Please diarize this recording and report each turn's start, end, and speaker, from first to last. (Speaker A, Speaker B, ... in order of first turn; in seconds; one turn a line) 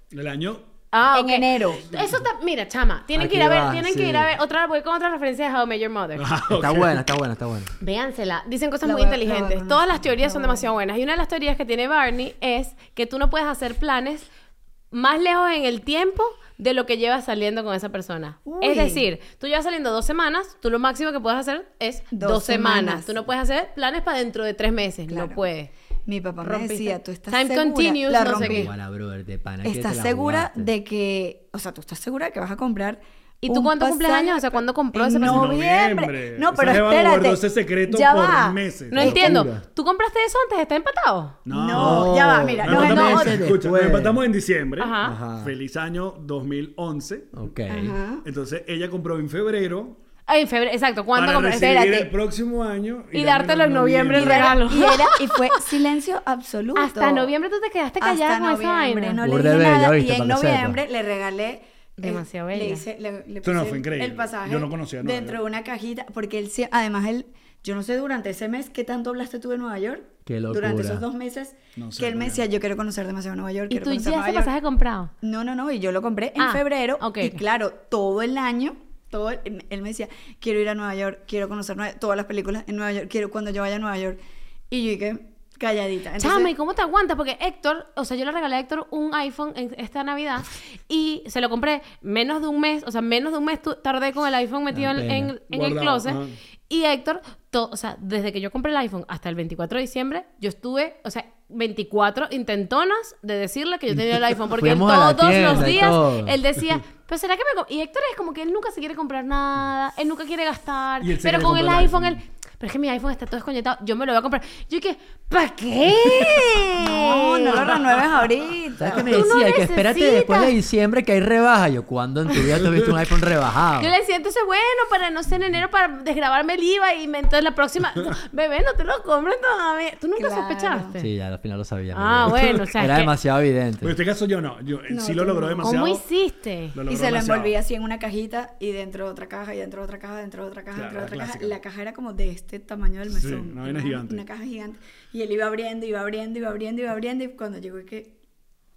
Speaker A: 0.1-0.7
Speaker B: 0.9-6.3
Speaker C: 1.1-2.0
Speaker D: 3.1-4.3
Speaker A: 6.2-7.0
Speaker D: 6.5-7.7
Speaker B: 7.8-14.3
Speaker C: 8.8-10.7
Speaker B: 14.9-25.7
Speaker C: 18.4-19.0
Speaker C: 22.1-23.1
Speaker C: 25.1-25.4
Speaker C: 26.1-28.7
Speaker B: 26.4-28.7
Speaker D: 28.2-30.7
Speaker C: 29.6-38.6
Speaker B: 33.4-35.5
Speaker A: 35.2-39.5
Speaker B: 38.9-41.4
Speaker D: 39.0-39.6
Speaker A: 41.5-47.4
Speaker C: 41.5-43.5
Speaker D: 41.7-44.2
Speaker B: 42.8-43.2
Speaker B: 44.8-45.2
Speaker D: 45.0-45.5
Speaker D: 47.3-48.0
Speaker C: 47.7-48.2
Speaker A: 48.2-50.0
Speaker B: 50.3-52.1
Speaker A: 51.1-54.8
Speaker B: 53.1-55.6
Speaker C: 54.1-57.3
Speaker B: 56.7-59.2
Speaker C: 58.0-74.5
Speaker D: 59.2-60.8
Speaker B: 62.0-62.8
Speaker A: 63.4-65.4
Speaker D: 70.2-71.0
Speaker A: 71.8-72.5
Speaker B: 73.7-75.1
Speaker C: 75.2-84.2
Speaker B: 76.4-77.4
Speaker C: 84.7-86.5
Speaker B: 86.2-117.9
Speaker D: 94.7-95.3
Speaker A: 95.5-96.3
Speaker D: 104.5-106.4
Speaker A: 111.0-112.2
Speaker C: 116.7-119.2
Speaker D: 118.8-123.9
Speaker B: 119.0-120.5
Speaker B: 123.8-131.1
Speaker C: 130.2-131.0
Speaker D: 131.0-133.9
Speaker B: 131.9-133.1
Speaker A: 132.3-132.6
Speaker A: 133.8-136.0
Speaker C: 134.9-135.8
Speaker B: 135.6-136.8
Speaker A: 136.7-137.6
Speaker C: 136.9-148.1
Speaker A: 140.7-141.6
Speaker A: 143.1-144.2